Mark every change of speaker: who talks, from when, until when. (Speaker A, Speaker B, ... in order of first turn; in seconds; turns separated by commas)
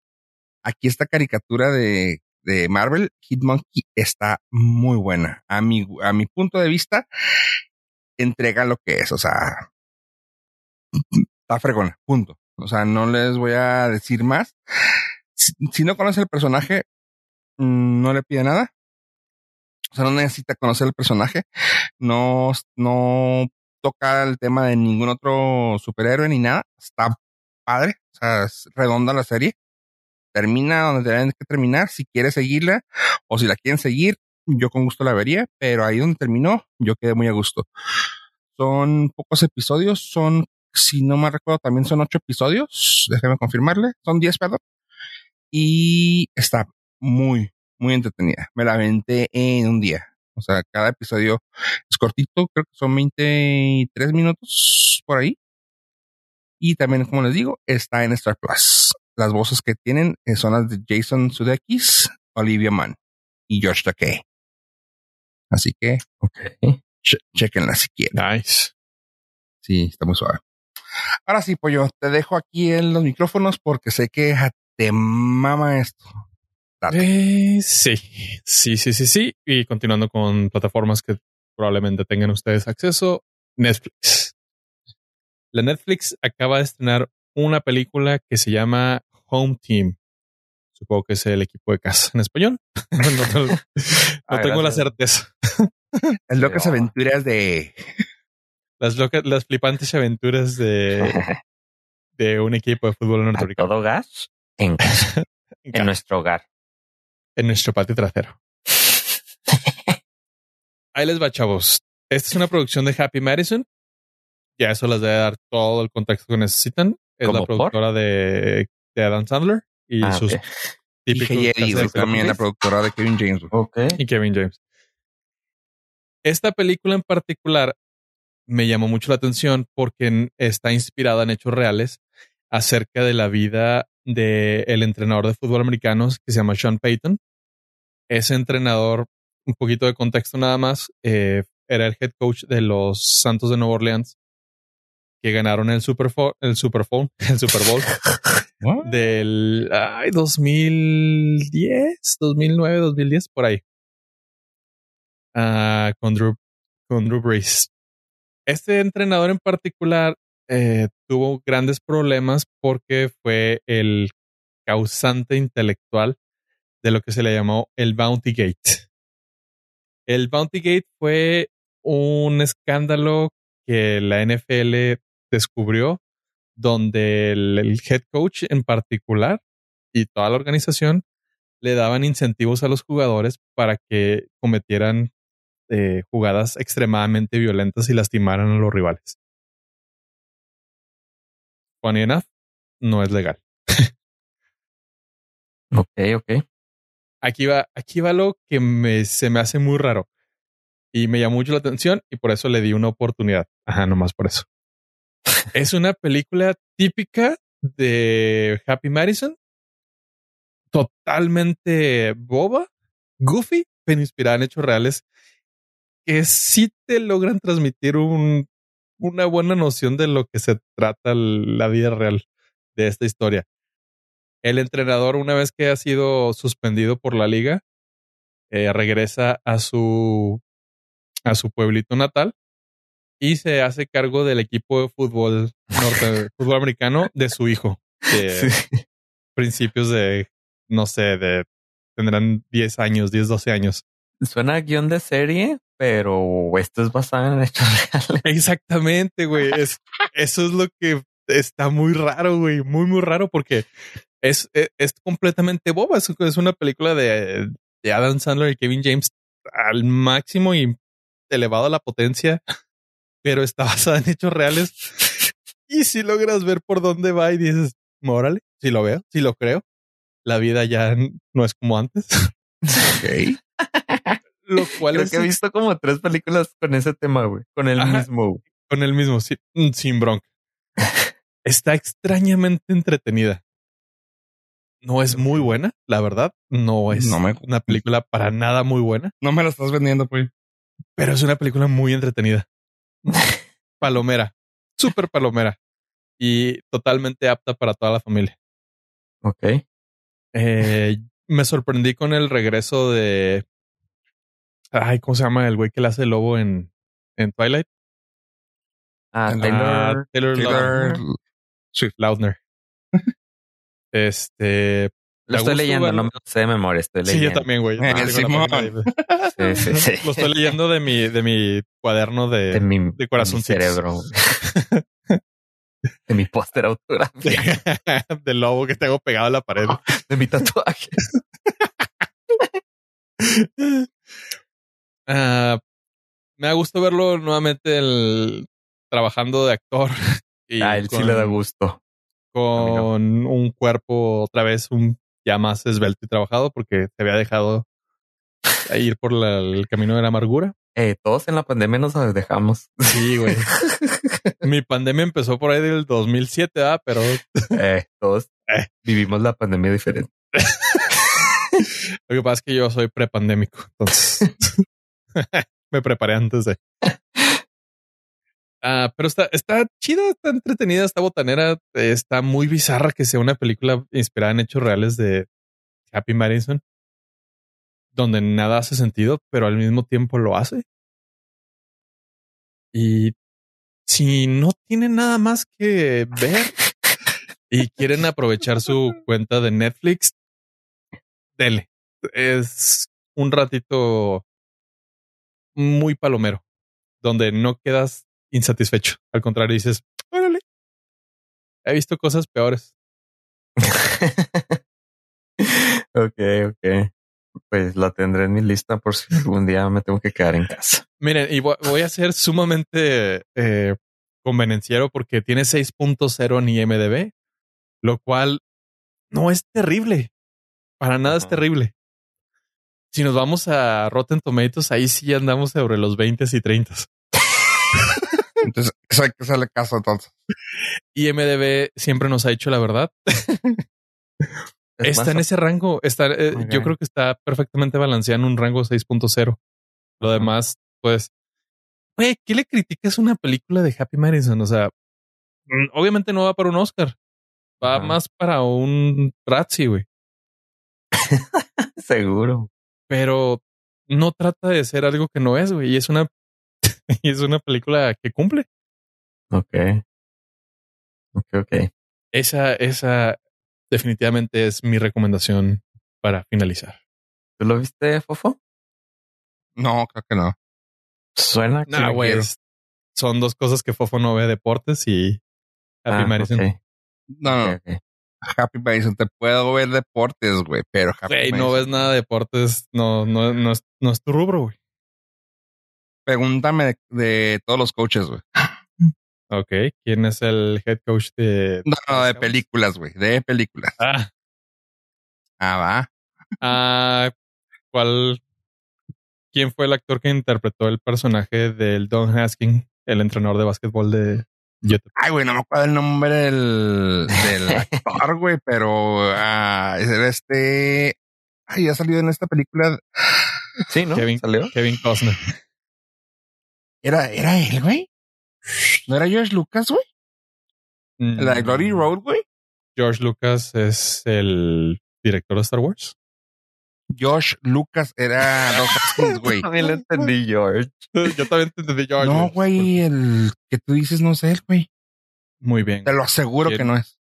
Speaker A: 0.6-7.0, Speaker A: 8.2-9.7, Speaker A: 11.0-14.6, Speaker A: 15.4-16.9, Speaker A: 17.6-18.7, Speaker A: 19.9-21.4, Speaker A: 22.0-29.6, Speaker A: 30.3-37.7, Speaker A: 38.6-44.6, Speaker A: 45.5-55.4, Speaker A: 56.6-63.0, Speaker A: 63.5-64.2, Speaker A: 65.5-66.0, Speaker B: 66.2-66.8, Speaker A: 67.0-68.2, Speaker C: 68.1-68.7, Speaker A: 69.6-70.4, Speaker A: 71.3-76.1, Speaker A: 76.8-77.1, Speaker C: 76.9-84.3, Speaker C: 85.5-90.0, Speaker C: 90.8-96.1, Speaker B: 94.3-94.9, Speaker A: 96.3-97.9, Speaker B: 96.4-96.9, Speaker C: 98.8-101.2, Speaker B: 101.0-101.4, Speaker C: 102.2-103.7, Speaker B: 103.3-105.1, Speaker C: 104.8-105.9, Speaker B: 105.7-106.5, Speaker C: 107.4-108.4, Speaker C: 111.0-113.7, Speaker C: 114.6-120.4, Speaker B: 117.2-117.8, Speaker B: 120.0-120.7, Speaker C: 121.1-122.3, Speaker A: 121.1-123.5, Speaker B: 121.7-122.4, Speaker B: 123.5-124.0, Speaker C: 124.0-124.6, Speaker C: 126.2-127.8, Speaker C: 128.5-132.0, Speaker C: 132.5-137.2, Speaker C: 138.1-144.2, Speaker C: 145.2-148.0, Speaker A: 148.6-149.1, Speaker C: 148.8-153.6, Speaker C: 155.3-156.4, Speaker C: 156.9-157.7, Speaker C: 158.5-164.1, Speaker C: 164.7-166.2, Speaker C: 166.8-168.9, Speaker C: 170.1-176.0, Speaker C: 176.6-179.4, Speaker C: 179.9-181.0, Speaker C: 181.6-185.1, Speaker C: 185.7-189.2, Speaker C: 191.8-192.3, Speaker C: 192.8-193.9, Speaker B: 195.7-196.4, Speaker C: 197.2-200.1, Speaker C: 200.9-204.5, Speaker C: 205.5-209.3, Speaker C: 210.7-212.7, Speaker C: 213.2-215.0, Speaker C: 216.1-218.5, Speaker C: 219.0-222.2, Speaker C: 222.8-223.5, Speaker C: 224.4-227.6, Speaker C: 228.5-230.4, Speaker C: 231.3-232.3, Speaker C: 233.2-238.5, Speaker B: 238.2-238.8, Speaker C: 239.4-243.8, Speaker B: 244.2-248.3, Speaker C: 248.2-253.7, Speaker C: 254.2-260.8, Speaker C: 261.3-262.4, Speaker C: 263.2-265.1, Speaker C: 265.7-269.6, Speaker C: 270.2-272.3, Speaker B: 272.7-272.9, Speaker A: 272.9-273.4, Speaker B: 273.6-274.2, Speaker C: 274.4-275.3, Speaker B: 274.9-278.4, Speaker C: 277.8-278.1, Speaker C: 278.7-280.3, Speaker C: 281.4-283.4, Speaker C: 284.8-289.1, Speaker A: 286.9-287.8, Speaker A: 289.2-290.3, Speaker C: 291.0-292.5, Speaker C: 293.8-295.6, Speaker C: 296.2-298.4, Speaker B: 299.2-299.6, Speaker C: 300.3-303.4, Speaker C: 304.7-307.7, Speaker B: 309.1-310.0, Speaker A: 309.3-309.5, Speaker C: 309.4-311.0, Speaker A: 310.3-311.2, Speaker C: 312.0-312.4, Speaker C: 313.9-316.1, Speaker B: 315.3-318.2, Speaker C: 317.1-323.8, Speaker A: 317.8-318.8, Speaker B: 319.4-320.3, Speaker B: 322.5-324.4, Speaker C: 324.4-325.2, Speaker B: 326.1-327.5, Speaker C: 327.2-329.9, Speaker B: 329.7-331.0, Speaker C: 333.2-333.9, Speaker C: 335.1-335.6, Speaker C: 336.4-341.4, Speaker B: 340.6-341.8, Speaker C: 342.3-347.6, Speaker B: 342.6-342.9, Speaker C: 348.7-350.5, Speaker B: 350.8-354.1, Speaker C: 352.9-353.5, Speaker C: 354.4-357.5, Speaker B: 357.5-358.3, Speaker B: 358.8-360.1, Speaker C: 360.4-360.9, Speaker C: 362.1-364.4, Speaker C: 365.1-366.6, Speaker B: 366.9-367.4, Speaker C: 368.6-375.3, Speaker C: 375.9-376.6, Speaker C: 377.9-380.6, Speaker C: 382.7-383.1, Speaker C: 383.9-386.6, Speaker C: 387.5-390.1, Speaker C: 391.4-394.2, Speaker C: 395.6-396.4, Speaker C: 397.0-400.4, Speaker C: 401.6-402.7, Speaker B: 403.6-404.6, Speaker B: 405.4-406.9, Speaker B: 407.5-410.8, Speaker C: 411.0-417.1, Speaker C: 417.8-418.4, Speaker C: 419.1-420.1, Speaker C: 420.8-421.7, Speaker B: 421.0-421.4, Speaker C: 422.9-426.9, Speaker A: 428.4-430.1, Speaker C: 430.9-433.6, Speaker B: 434.8-435.2, Speaker C: 434.8-439.4, Speaker B: 436.3-436.7, Speaker C: 440.0-441.1, Speaker B: 440.0-440.3, Speaker C: 442.0-444.7, Speaker C: 445.5-447.0, Speaker C: 447.6-449.9, Speaker B: 447.6-448.0, Speaker B: 451.0-452.5, Speaker C: 452.9-456.1, Speaker C: 456.6-458.5, Speaker B: 459.3-459.8, Speaker B: 461.1-461.7, Speaker C: 462.1-463.2, Speaker C: 463.7-466.8, Speaker B: 467.4-468.4, Speaker A: 469.6-470.4, Speaker B: 471.2-472.3, Speaker C: 471.7-472.4, Speaker C: 472.9-475.2, Speaker C: 475.9-476.5, Speaker B: 475.9-476.6, Speaker A: 477.1-477.6, Speaker B: 477.2-477.8, Speaker A: 478.2-481.9, Speaker C: 481.1-484.6, Speaker A: 486.1-488.6, Speaker C: 489.3-492.4, Speaker A: 491.7-493.8, Speaker C: 493.8-494.1, Speaker A: 495.4-495.9, Speaker C: 496.4-497.1, Speaker C: 497.7-498.2, Speaker C: 499.3-504.9, Speaker A: 505.0-511.0, Speaker B: 507.1-507.8, Speaker A: 511.5-513.3, Speaker B: 513.7-514.5, Speaker C: 514.0-515.3, Speaker A: 516.8-517.9, Speaker A: 518.9-519.8, Speaker C: 521.0-521.9, Speaker A: 521.2-522.2, Speaker C: 522.8-525.9, Speaker A: 526.9-529.5, Speaker B: 529.2-530.9, Speaker C: 530.9-532.8, Speaker A: 532.0-534.7, Speaker C: 535.4-535.9, Speaker A: 535.9-536.9